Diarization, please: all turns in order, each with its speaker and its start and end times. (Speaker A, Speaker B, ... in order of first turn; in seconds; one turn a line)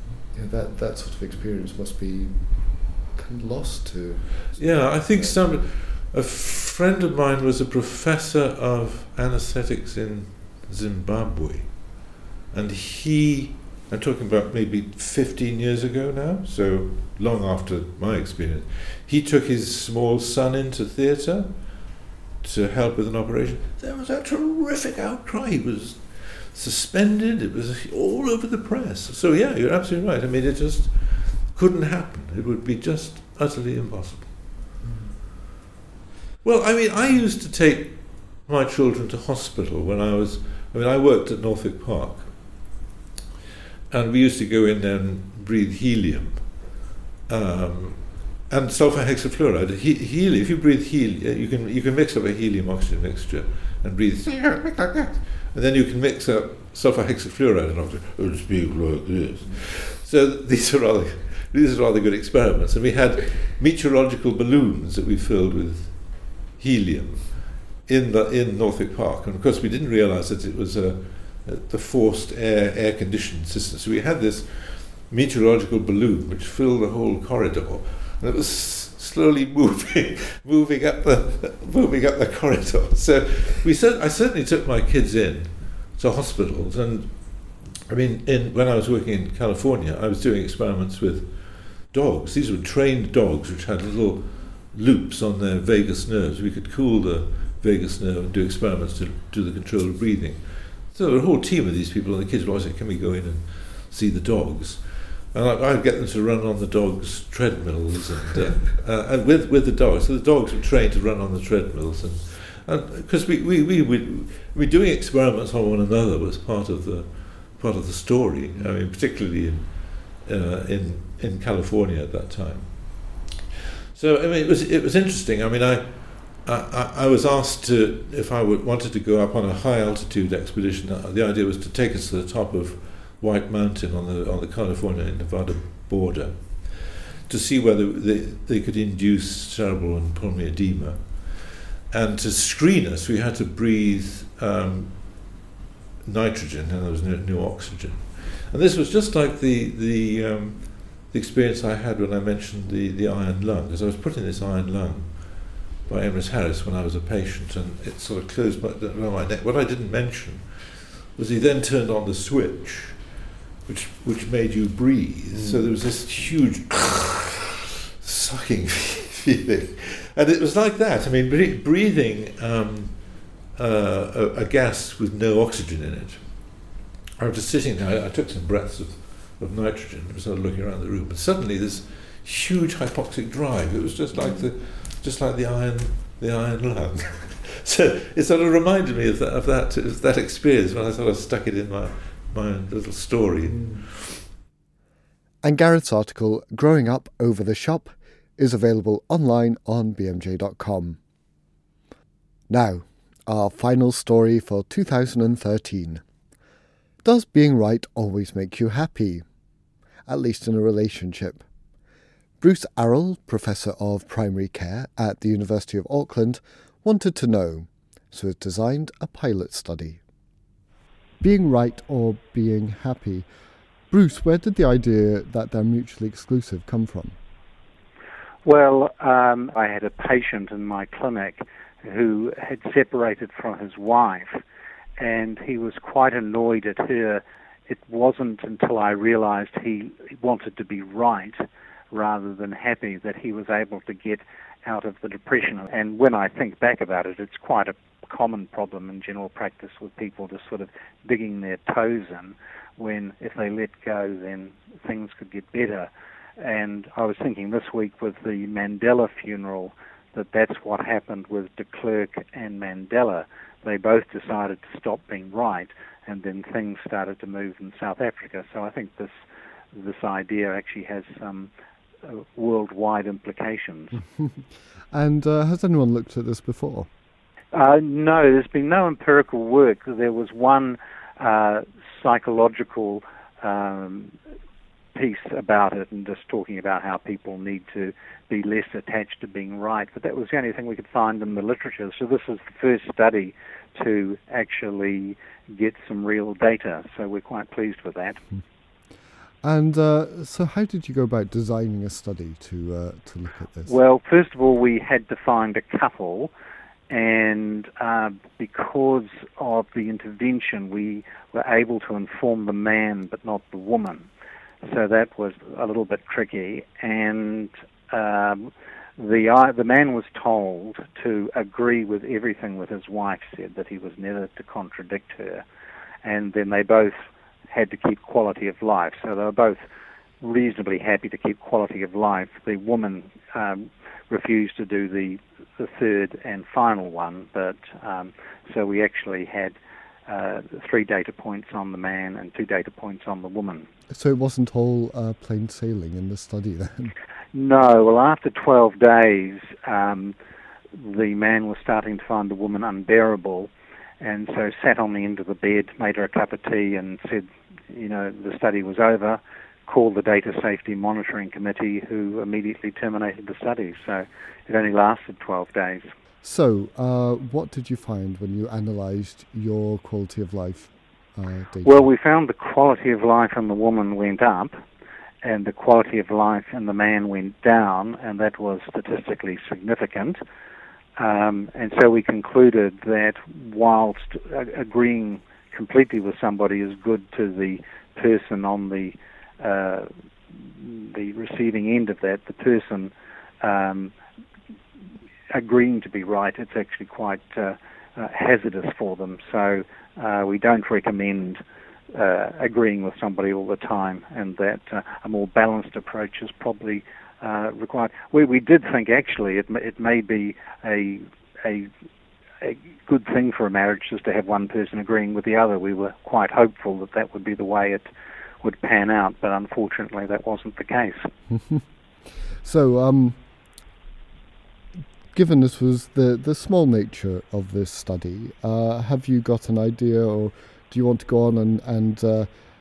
Speaker A: 0.3-5.6
Speaker B: 4.5-34.3
Speaker A: 34.8-35.1
Speaker B: 36.4-42.8
Speaker B: 43.9-123.3
Speaker B: 123.9-145.4
Speaker B: 146.1-167.4
Speaker A: 165.3-165.7
Speaker B: 168.0-194.3
Speaker A: 184.2-184.4
Speaker A: 193.5-193.8
Speaker A: 195.4-201.0
Speaker A: 202.5-206.0
Speaker A: 207.0-209.2
Speaker A: 210.1-211.4
Speaker A: 212.4-220.0
Speaker A: 221.2-223.3
Speaker A: 223.9-227.2
Speaker C: 228.4-234.4
Speaker C: 235.0-271.5
Speaker C: 272.0-274.0
Speaker A: 274.1-276.9
Speaker C: 277.5-284.1
Speaker C: 284.9-298.2
Speaker A: 299.4-303.7
Speaker C: 303.6-306.3
Speaker C: 306.9-314.1
Speaker C: 314.6-325.4
Speaker C: 326.0-329.6
Speaker C: 330.2-339.6
Speaker C: 340.1-343.7
Speaker A: 343.9-346.9
Speaker C: 347.3-350.1
Speaker C: 350.7-365.9
Speaker A: 366.2-371.9
Speaker C: 371.6-374.6
Speaker C: 375.2-380.2
Speaker C: 381.0-393.9
Speaker C: 395.3-401.4
Speaker C: 401.9-411.7
Speaker C: 412.4-417.9
Speaker C: 418.4-421.1
Speaker A: 421.3-421.6
Speaker A: 422.4-423.2
Speaker A: 425.1-432.3